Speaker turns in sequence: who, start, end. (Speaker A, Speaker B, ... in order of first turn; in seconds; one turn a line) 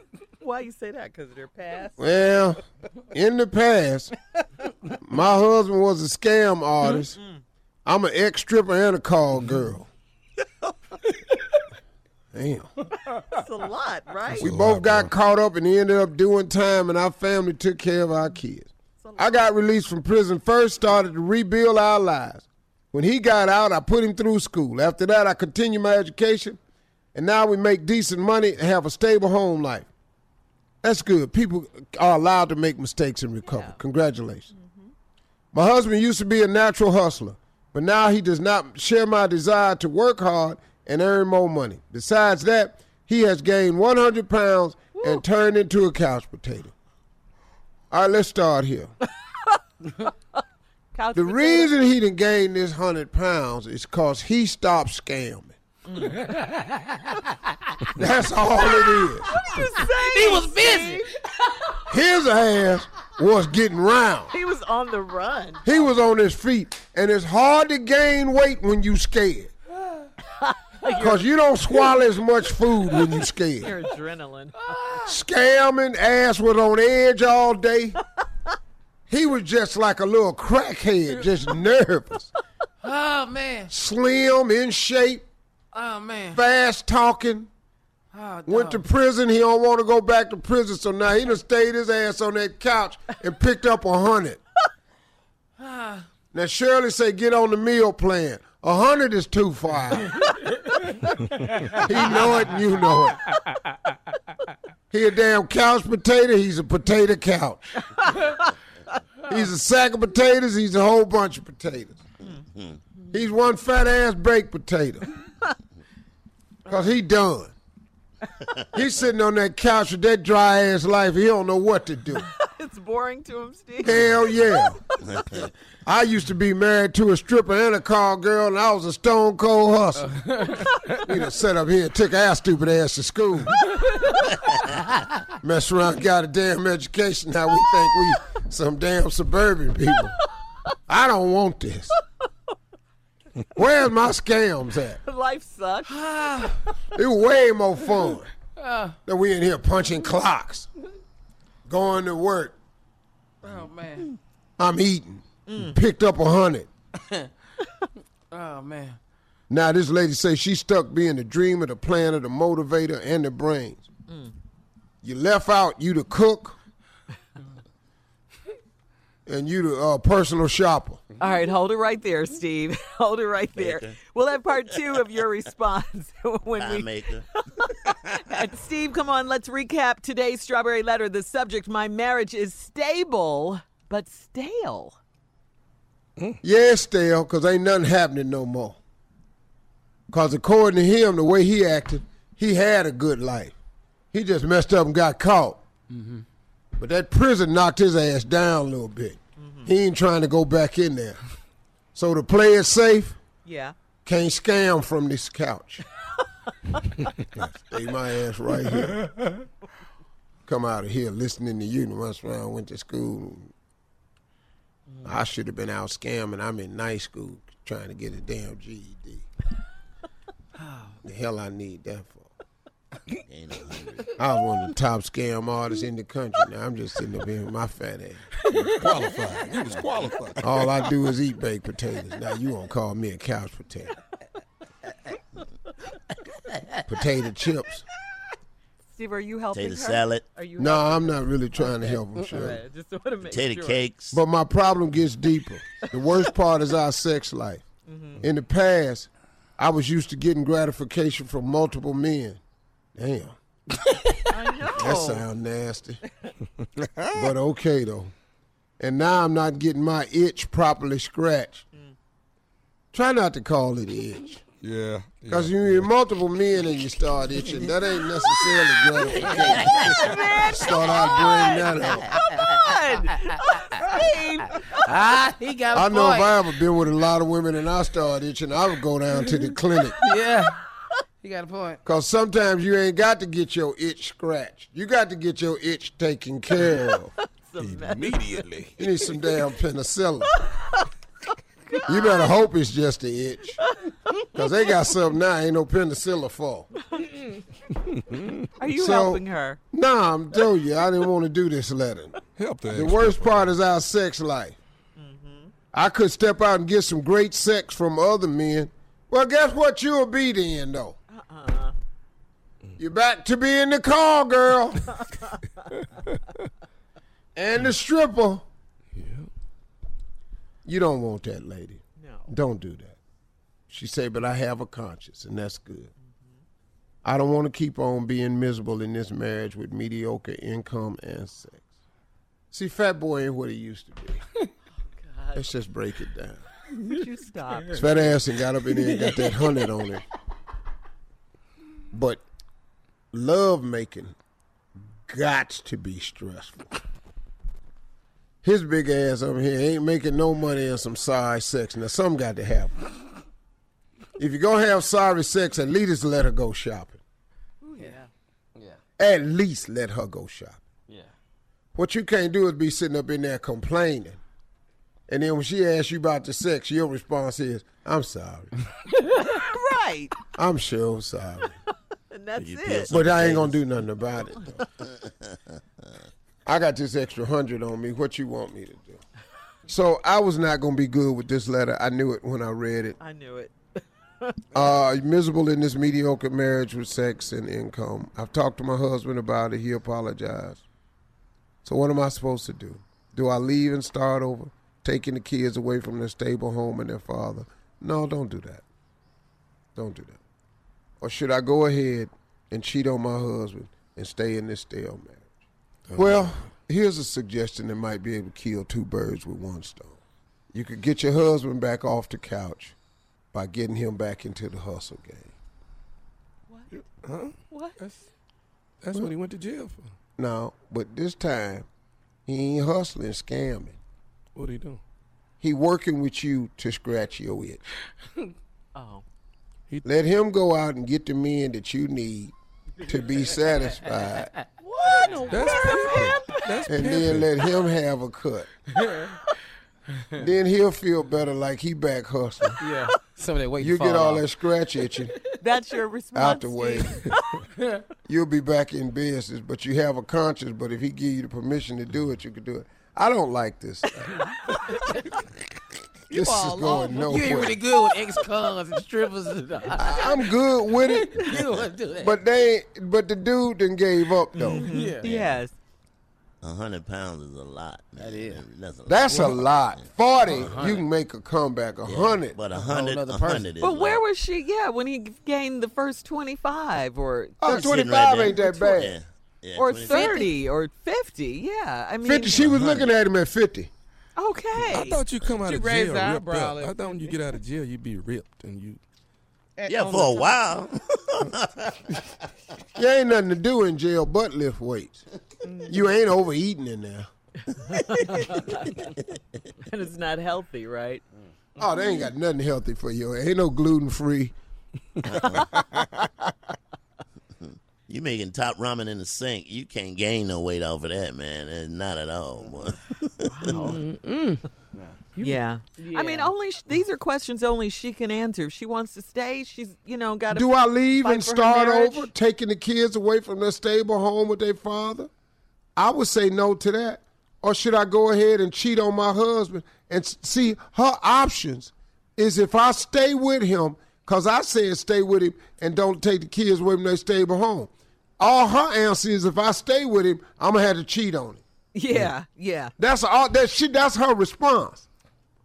Speaker A: 0.3-2.6
Speaker B: 2.0-2.6
Speaker B: 3.1-4.1
Speaker B: 4.9-7.2
Speaker A: 7.1-7.4
Speaker B: 7.8-9.9
Speaker B: 12.3-12.7
Speaker A: 13.1-14.5
Speaker B: 14.4-26.6
Speaker C: 14.4-15.1
Speaker A: 19.0-19.5
Speaker B: 27.1-29.9
Speaker B: 30.8-34.5
Speaker A: 33.5-33.8
Speaker A: 34.5-34.9
Speaker B: 35.5-46.7
Speaker A: 45.0-45.2
Speaker B: 47.9-48.9
Speaker A: 49.5-50.1
Speaker A: 50.9-51.7
Speaker B: 51.1-55.5
Speaker A: 55.9-56.5
Speaker D: 56.5-56.8
Speaker B: 57.9-59.4
Speaker A: 59.2-61.8
Speaker D: 60.0-61.1
Speaker B: 61.9-64.3
Speaker A: 64.3-65.9
Speaker B: 65.6-69.5
Speaker A: 70.4-71.2
Speaker B: 70.8-73.7
Speaker A: 73.6-74.7
Speaker D: 74.6-75.0
Speaker B: 75.0-78.0
Speaker B: 79.1-82.3
Speaker D: 82.8-83.7
Speaker B: 83.7-85.3
Speaker D: 85.7-86.4
Speaker B: 86.3-87.5
Speaker D: 88.1-88.8
Speaker B: 88.5-94.4
Speaker D: 95.6-96.0
Speaker B: 96.3-100.2
Speaker B: 101.7-103.3
Speaker A: 103.2-103.7
Speaker B: 104.9-107.8
Speaker A: 107.9-108.5
Speaker B: 109.2-112.0
Speaker B: 113.1-115.1
Speaker B: 116.7-117.5
Speaker B: 118.7-122.2
Speaker A: 122.2-124.7
Speaker B: 123.8-133.8
Speaker D: 130.4-130.7
Speaker A: 133.9-134.5
Speaker B: 135.4-140.2
Speaker B: 140.9-141.9
Speaker B: 143.5-145.0
Speaker A: 145.0-146.8
Speaker D: 145.9-146.6
Speaker B: 146.9-148.3
Speaker D: 148.6-148.9
Speaker B: 149.1-150.7
Speaker B: 151.7-152.5
Speaker D: 153.4-154.1
Speaker B: 154.6-156.7
Speaker A: 155.5-155.8
Speaker D: 158.3-159.0
Speaker B: 159.5-163.8
Speaker B: 165.0-166.6
Speaker B: 169.2-171.0
Speaker A: 171.2-185.0
Speaker E: 173.6-173.9
Speaker E: 176.6-177.3
Speaker B: 186.4-188.8
Speaker B: 190.1-193.6
Speaker B: 194.1-195.6
Speaker D: 195.9-196.2
Speaker B: 196.8-201.2
Speaker A: 199.4-199.7
Speaker B: 201.9-203.2
Speaker A: 203.4-203.7
Speaker B: 204.0-205.8
Speaker A: 206.5-207.1
Speaker B: 207.5-209.1
Speaker B: 210.4-213.5
Speaker B: 215.0-219.2
Speaker B: 221.0-222.3
Speaker E: 223.2-224.1
Speaker B: 224.2-228.3
Speaker C: 228.5-230.8
Speaker B: 230.4-233.9
Speaker D: 236.5-236.8
Speaker B: 236.9-237.8
Speaker A: 238.9-243.8
Speaker E: 239.5-240.2
Speaker B: 240.6-242.6
Speaker E: 243.2-244.2
Speaker B: 244.1-247.6
Speaker A: 245.8-246.2
Speaker A: 247.9-248.2
Speaker B: 248.2-252.4
Speaker B: 252.9-253.4
Speaker D: 253.9-254.2
Speaker A: 254.2-255.2
Speaker B: 254.7-256.0
Speaker C: 256.8-257.1
Speaker B: 257.1-258.1
Speaker B: 258.8-261.6
Speaker B: 262.9-264.4
Speaker C: 264.6-265.9
Speaker B: 265.3-272.2
Speaker A: 268.1-274.9
Speaker D: 269.4-269.7
Speaker D: 274.8-276.3
Speaker B: 275.7-280.0
Speaker D: 280.0-280.6
Speaker D: 281.2-281.8
Speaker B: 281.8-287.1
Speaker A: 287.4-288.4
Speaker C: 287.6-288.8
Speaker B: 288.8-290.4
Speaker A: 290.4-290.9
Speaker A: 291.7-292.2
Speaker B: 291.9-293.6
Speaker A: 293.7-294.2
Speaker B: 294.2-296.7
Speaker A: 296.8-297.2
Speaker C: 297.9-298.4
Speaker A: 298.6-299.6
Speaker B: 298.8-304.6
Speaker C: 302.4-303.5
Speaker A: 305.0-305.5
Speaker B: 305.7-311.0
Speaker A: 311.1-311.7
Speaker B: 312.8-315.0
Speaker A: 315.0-315.3
Speaker B: 317.4-318.4
Speaker C: 318.9-319.3
Speaker B: 320.6-323.0
Speaker A: 322.0-322.3
Speaker B: 323.7-325.9
Speaker B: 327.0-331.6
Speaker B: 332.5-334.2
Speaker A: 334.8-335.5
Speaker B: 335.3-336.4
Speaker A: 336.7-337.9
Speaker B: 337.7-340.1
Speaker B: 341.9-342.2
Speaker B: 343.1-344.1
Speaker B: 345.1-346.7
Speaker B: 348.4-352.8
Speaker B: 354.2-357.0
Speaker A: 357.6-358.1
Speaker B: 359.0-360.6
Speaker B: 361.7-364.2
Speaker B: 365.1-368.5
Speaker A: 369.1-370.2
Speaker B: 370.4-371.6
Speaker A: 372.1-372.9
Speaker E: 372.4-374.4
Speaker B: 372.9-374.6
Speaker B: 376.4-379.0
Speaker B: 379.7-383.0
Speaker A: 383.0-383.6
Speaker A: 384.2-384.6
Speaker B: 384.5-390.6
Speaker B: 391.6-398.6
Speaker B: 399.8-400.2
Speaker B: 401.0-405.3
Speaker C: 405.9-406.3
Speaker B: 405.9-410.0
Speaker B: 410.5-412.7
Speaker B: 413.3-415.3
Speaker A: 416.5-416.8
Speaker C: 417.0-418.0
Speaker A: 417.5-417.8
Speaker C: 418.8-419.9
Speaker B: 420.2-421.7
Speaker B: 422.3-423.8
Speaker C: 424.3-424.8
Speaker B: 425.4-427.6
Speaker A: 428.7-429.0
Speaker B: 429.8-434.3
Speaker A: 434.6-436.5
Speaker D: 435.1-435.7
Speaker C: 435.3-437.3
Speaker B: 436.7-438.5
Speaker D: 438.8-439.1
Speaker B: 440.1-442.6
Speaker D: 442.6-444.2
Speaker B: 443.6-445.2
Speaker A: 445.3-447.4
Speaker B: 446.1-447.0
Speaker D: 447.6-447.8
Speaker B: 448.1-454.1
Speaker A: 454.0-455.2
Speaker B: 456.1-457.6
Speaker D: 456.1-460.2
Speaker B: 459.8-461.1
Speaker D: 460.8-462.2
Speaker E: 461.2-461.7
Speaker B: 462.0-464.7
Speaker A: 464.3-465.6
Speaker D: 464.6-465.1
Speaker E: 465.0-465.4
Speaker E: 466.4-470.8
Speaker D: 467.9-468.4
Speaker B: 468.9-472.4
Speaker D: 470.3-470.8
Speaker E: 471.8-474.0
Speaker D: 472.6-473.5
Speaker A: 473.6-477.8
Speaker B: 477.4-479.0
Speaker E: 477.4-480.3
Speaker A: 478.5-478.8
Speaker A: 479.6-482.8
Speaker B: 482.0-483.7
Speaker E: 482.4-482.9
Speaker A: 484.1-485.0
Speaker C: 484.5-488.8
Speaker D: 485.3-487.2
Speaker D: 489.6-490.3
Speaker E: 489.7-491.8
Speaker B: 492.7-495.0
Speaker B: 495.6-497.1
Speaker A: 497.5-498.9
Speaker A: 499.6-501.0
Speaker B: 501.6-504.3
Speaker E: 505.0-505.5
Speaker A: 505.1-505.9
Speaker C: 505.8-506.1
Speaker E: 507.9-513.7
Speaker A: 513.3-513.8
Speaker D: 513.4-516.3
Speaker A: 515.2-522.1
Speaker B: 520.3-525.1
Speaker B: 525.8-541.4
Speaker A: 541.7-542.7
Speaker B: 542.8-544.9